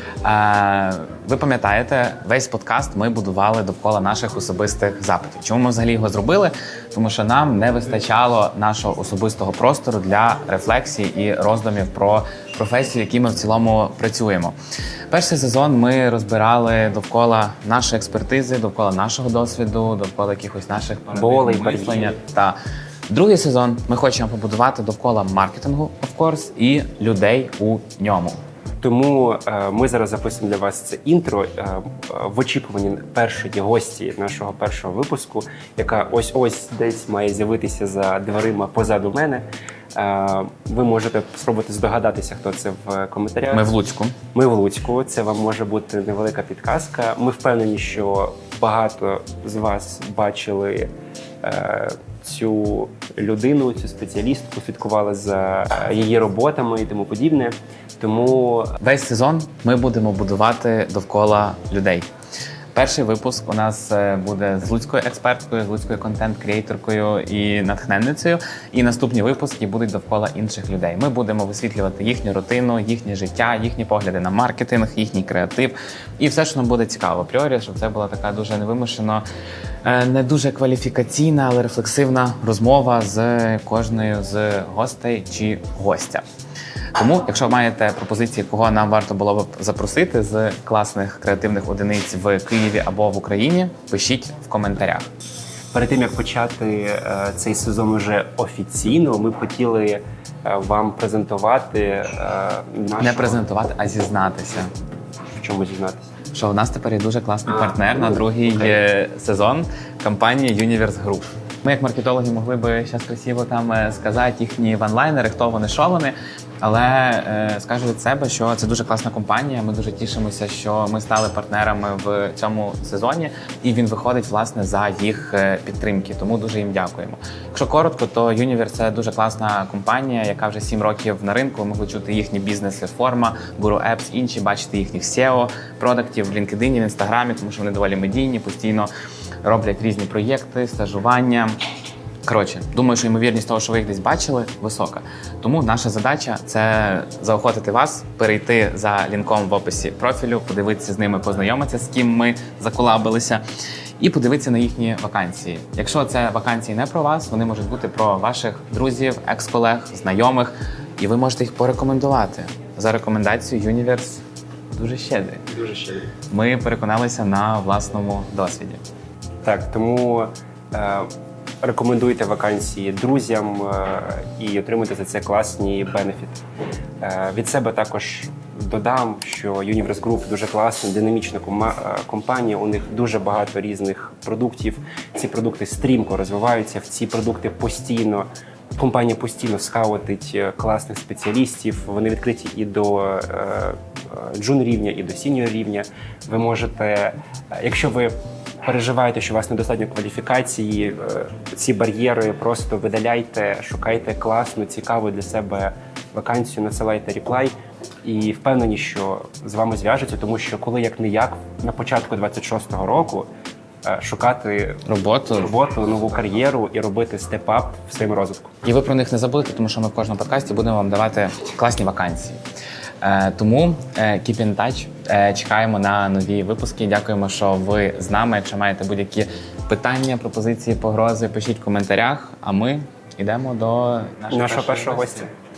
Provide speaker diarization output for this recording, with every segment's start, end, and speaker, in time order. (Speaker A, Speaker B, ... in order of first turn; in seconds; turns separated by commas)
Speaker A: 0.2-14.5, Speaker A: 15.1-22.6, Speaker B: 21.1-22.1, Speaker A: 23.1-28.4, Speaker B: 28.8-43.7, Speaker A: 43.5-44.1, Speaker B: 44.3-50.9, Speaker B: 51.4-58.7, Speaker A: 58.8-62.0, Speaker A: 62.7-79.2, Speaker A: 79.8-86.2, Speaker A: 87.0-95.1, Speaker B: 95.7-103.4, Speaker A: 103.0-104.7, Speaker B: 105.3-106.1, Speaker A: 106.3-138.9, Speaker B: 107.6-108.8, Speaker A: 139.4-141.6, Speaker A: 142.2-153.4, Speaker A: 154.0-164.2, Speaker A: 164.7-165.4, Speaker B: 165.5-166.1, Speaker A: 166.3-168.8, Speaker B: 169.4-171.1, Speaker B: 171.6-176.4, Speaker B: 177.0-213.3, Speaker B: 213.8-214.8, Speaker A: 214.8-215.5, Speaker B: 215.4-218.5, Speaker A: 218.6-222.4, Speaker A: 223.0-235.3, Speaker B: 234.3-235.3